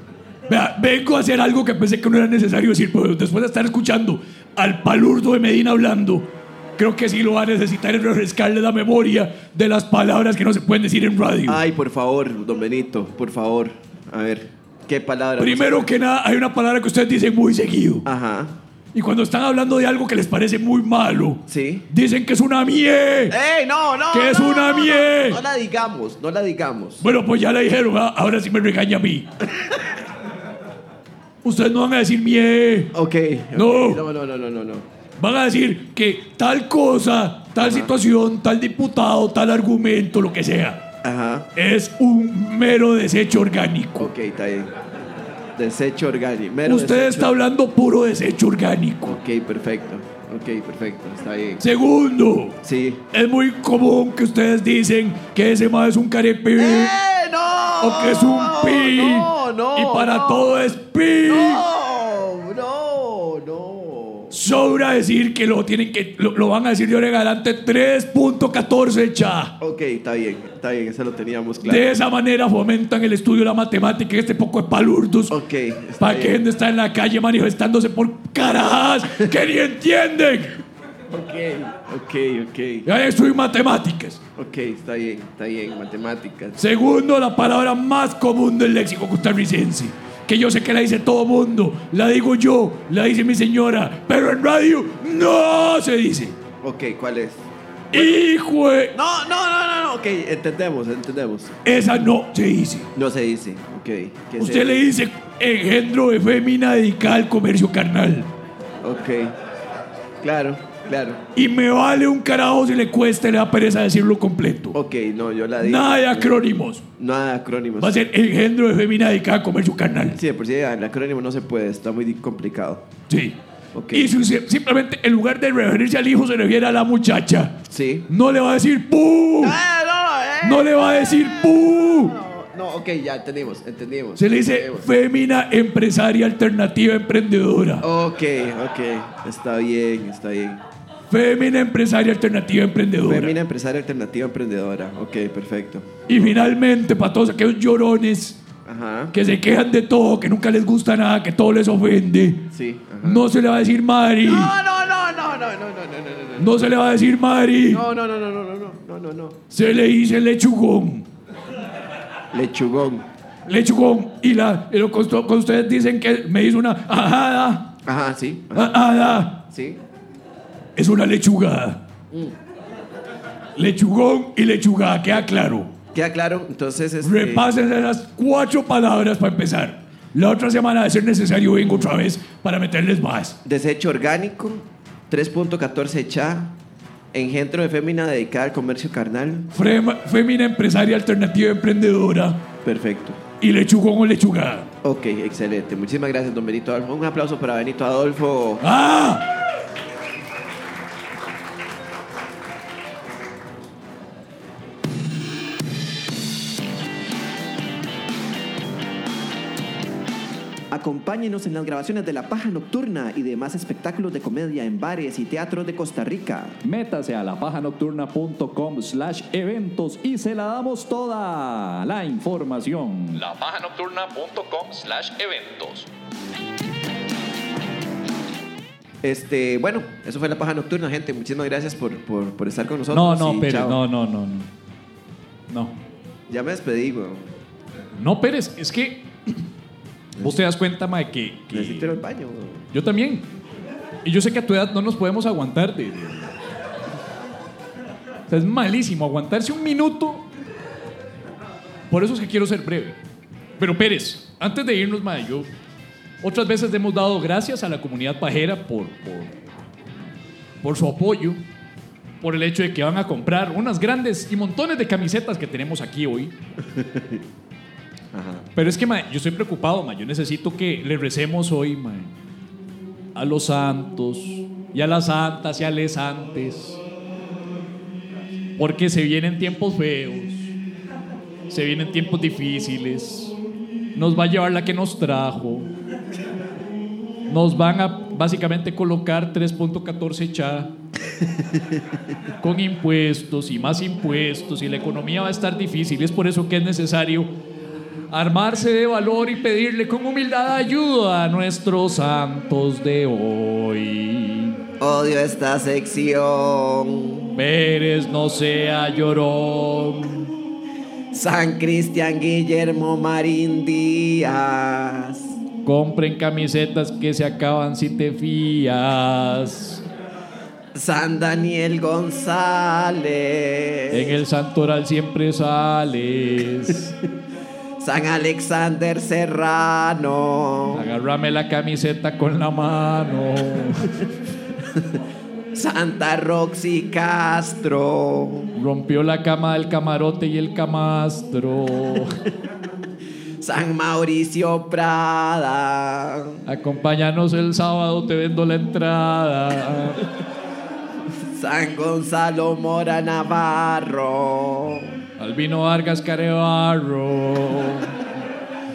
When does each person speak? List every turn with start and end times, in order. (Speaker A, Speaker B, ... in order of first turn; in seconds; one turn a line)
Speaker A: 0.5-6.3
Speaker A: 6.8-11.6
Speaker B: 11.5-15.9
Speaker A: 15.4-18.1
Speaker B: 18.0-18.5
Speaker A: 18.9-23.4
Speaker B: 21.5-21.9
Speaker B: 23.3-27.0
Speaker A: 24.1-25.4
Speaker A: 27.0-29.3
Speaker B: 29.4-30.0
Speaker A: 31.4-32.9
Speaker B: 32.9-34.9
Speaker A: 33.5-34.0
Speaker A: 35.2-40.8
Speaker B: 37.6-37.9
Speaker B: 41.0-41.5
Speaker A: 41.5-44.1
Speaker B: 44.0-44.7
Speaker B: 45.5-47.4
Speaker A: 46.6-49.2
Speaker B: 49.0-51.6
Speaker A: 51.6-52.6
Speaker B: 52.6-53.0
Speaker A: 53.1-57.0
Speaker B: 56.5-60.6
Speaker A: 57.8-61.6
Speaker B: 61.2-64.4
Speaker A: 64.3-69.5
Speaker B: 69.6-71.9
Speaker A: 71.6-75.3
Speaker B: 75.3-76.4
Speaker A: 76.0-80.6
Speaker B: 81.1-82.9
Speaker A: 82.8-84.2
Speaker B: 84.3-86.6
Speaker A: 86.6-96.3
Speaker B: 96.6-98.2
Speaker A: 97.9-98.9
Speaker B: 98.9-101.6
Speaker A: 101.6-102.9
Speaker B: 102.9-104.9
Speaker A: 104.4-108.3
Speaker B: 108.8-109.3
Speaker B: 110.2-111.2
Speaker A: 111.3-114.8
Speaker B: 114.7-116.3
Speaker A: 115.6-116.8
Speaker B: 117.0-118.0
Speaker A: 117.8-120.2
Speaker B: 120.1-122.8
Speaker A: 123.1-123.3
Speaker B: 123.7-124.1
Speaker A: 123.9-129.6
Speaker B: 127.7-128.1
Speaker B: 129.4-134.9
Speaker A: 130.4-132.1
Speaker A: 134.2-137.8
Speaker B: 137.8-140.6
Speaker A: 141.1-143.3
Speaker B: 143.0-146.4
Speaker A: 146.1-148.4
Speaker B: 148.7-149.1
Speaker A: 149.1-152.5
Speaker B: 152.5-153.2
Speaker A: 153.0-154.5
Speaker B: 154.2-156.5
Speaker A: 156.4-157.8
Speaker B: 157.7-159.4
Speaker A: 159.5-161.1
Speaker B: 162.3-163.1
Speaker A: 163.5-167.7
Speaker B: 167.8-169.8
Speaker A: 168.5-169.4
Speaker A: 170.8-171.8
Speaker B: 172.1-172.3
Speaker A: 173.6-175.7
Speaker B: 175.9-177.5
Speaker A: 177.0-183.4
Speaker B: 183.4-186.5
Speaker B: 187.1-189.5
Speaker A: 189.5-192.4
Speaker B: 192.6-193.2
Speaker A: 193.4-194.7
Speaker B: 194.8-198.6
Speaker A: 198.6-199.2
Speaker B: 210.7-216.6
Speaker C: 216.6-225.9
Speaker B: 229.0-233.8
Speaker A: 232.9-234.5
Speaker A: 235.5-235.7
Speaker B: 236.3-237.3
Speaker A: 237.9-239.4
Speaker A: 240.2-242.0
Speaker B: 241.5-242.7
Speaker A: 242.7-243.2
Speaker A: 244.0-246.3
Speaker A: 248.3-250.2
Speaker A: 251.9-253.0
Speaker A: 253.6-255.5
Speaker A: 256.2-259.4
Speaker A: 260.6-261.4
Speaker A: 262.2-266.3
Speaker B: 266.6-267.2
Speaker B: 268.1-268.4
Speaker A: 268.5-272.1
Speaker A: 273.1-276.8
Speaker A: 278.6-280.5
Speaker A: 281.5-283.3
Speaker A: 283.9-285.7
Speaker A: 287.3-290.7
Speaker B: 291.4-291.6
Speaker A: 292.4-297.3
Speaker A: 298.1-304.6
Speaker B: 304.8-307.3
Speaker A: 307.4-310.3
Speaker B: 311.1-315.4
Speaker A: 315.6-319.8
Speaker B: 320.7-324.2
Speaker A: 323.9-326.9
Speaker B: 327.8-330.9
Speaker A: 330.7-334.0
Speaker B: 334.6-335.0
Speaker B: 335.5-338.5
Speaker A: 338.5-342.2
Speaker B: 343.4-346.4
Speaker A: 346.4-350.1
Speaker B: 351.1-354.9
Speaker A: 355.2-358.0